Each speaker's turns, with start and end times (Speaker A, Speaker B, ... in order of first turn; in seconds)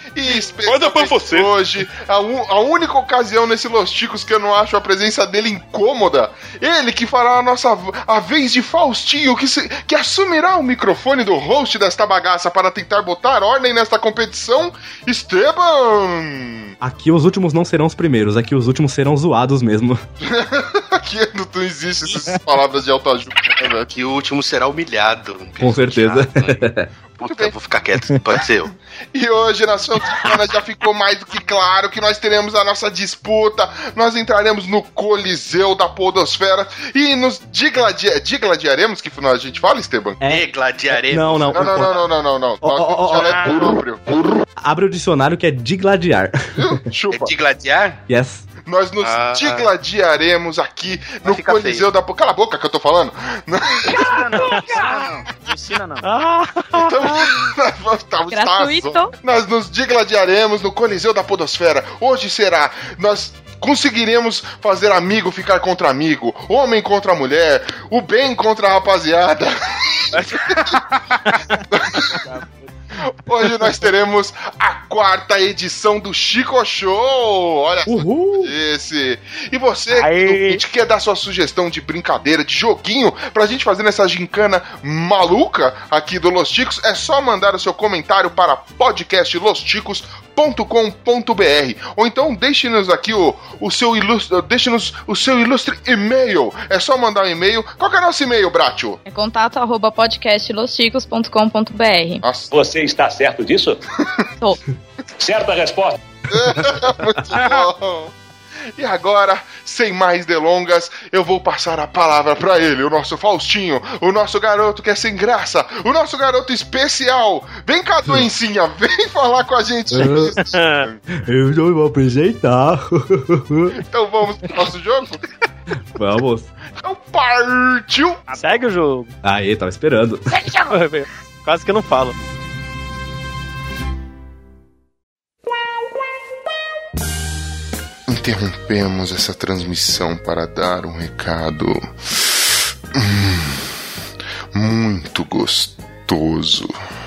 Speaker A: 0.1-16.7, 20.2-23.9, 27.2-27.5, 29.1-40.2, 41.5-44.0, 46.5-47.4, 48.6-54.1, 56.8-70.0, 71.7-72.1, 73.3-99.0, 102.2-102.5, 106.3-108.1, 108.8-121.0, 123.7-125.2, 126.8-128.2, 138.1-141.8, 142.9-143.7, 144.5-146.7
Speaker B: 0.6-1.5, 53.9-56.0, 70.1-71.2, 72.0-72.6
Speaker C: 16.8-20.0, 25.6-26.9, 40.2-42.0, 42.6-43.4, 44.6-46.4, 48.1-48.5, 77.8-78.5, 119.9-120.3, 121.1-123.7, 125.9-126.5, 129.2-130.2
Speaker D: 23.8-26.6, 27.2-28.7, 40.2-41.9, 47.1-48.0, 49.0-49.7, 51.2-51.9
Speaker E: 56.0-57.1, 79.9-80.6, 120.4-120.8, 128.3-129.1, 130.6-132.2
Speaker F: 58.3-59.1, 99.0-102.2
Speaker G: 102.5-103.8, 105.2-106.0